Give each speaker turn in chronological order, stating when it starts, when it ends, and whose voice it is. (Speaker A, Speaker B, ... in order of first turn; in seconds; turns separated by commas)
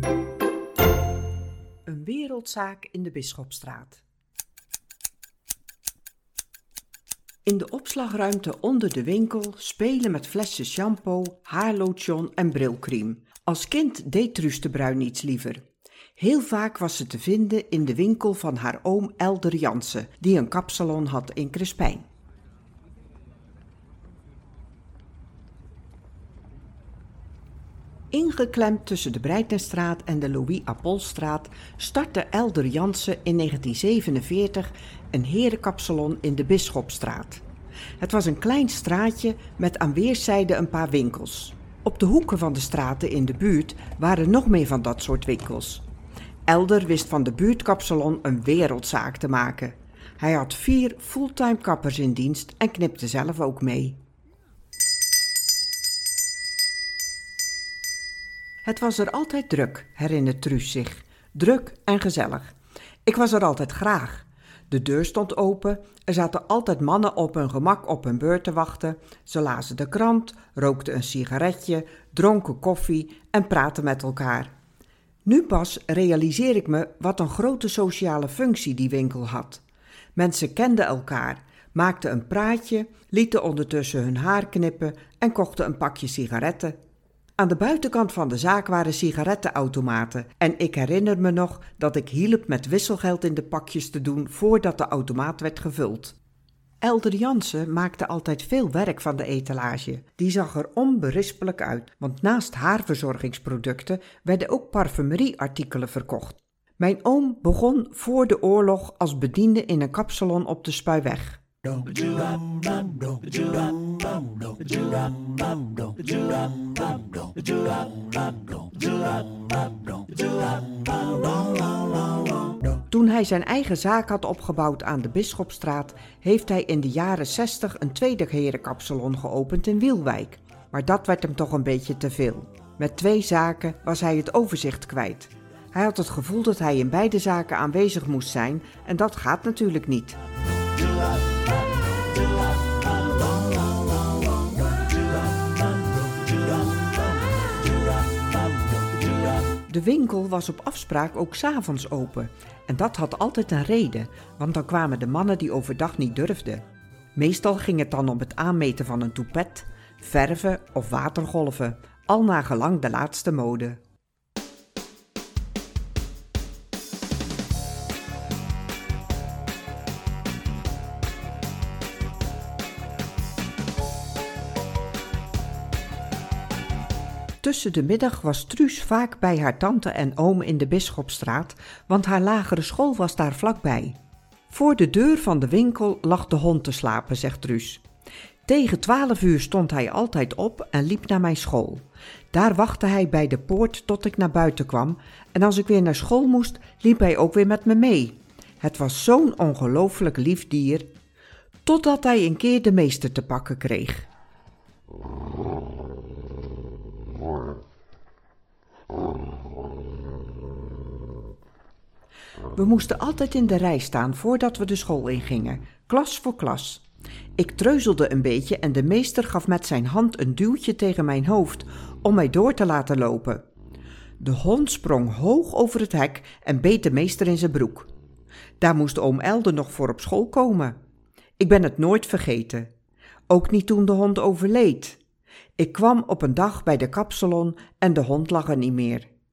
Speaker A: 1.9-4.0, Speaker A: 7.5-15.7, Speaker A: 16.2-22.1, Speaker A: 28.1-37.4, Speaker A: 38.0-45.8, Speaker A: 46.5-54.0, Speaker A: 58.6-62.5, Speaker A: 63.0-74.5, Speaker A: 75.2-79.6, Speaker A: 80.2-86.8, Speaker A: 87.4-96.2, Speaker A: 96.8-111.4, Speaker A: 122.8-140.2, Speaker A: 149.7-163.8, Speaker A: 177.4-184.0, Speaker A: 184.5-187.8, Speaker A: 188.5-200.9, Speaker A: 201.6-204.1, Speaker A: 212.5-216.8, Speaker A: 217.4-223.4, Speaker A: 224.2-227.9, Speaker A: 228.6-230.8, Speaker A: 231.4-232.7, Speaker A: 233.3-235.0, Speaker A: 235.6-239.1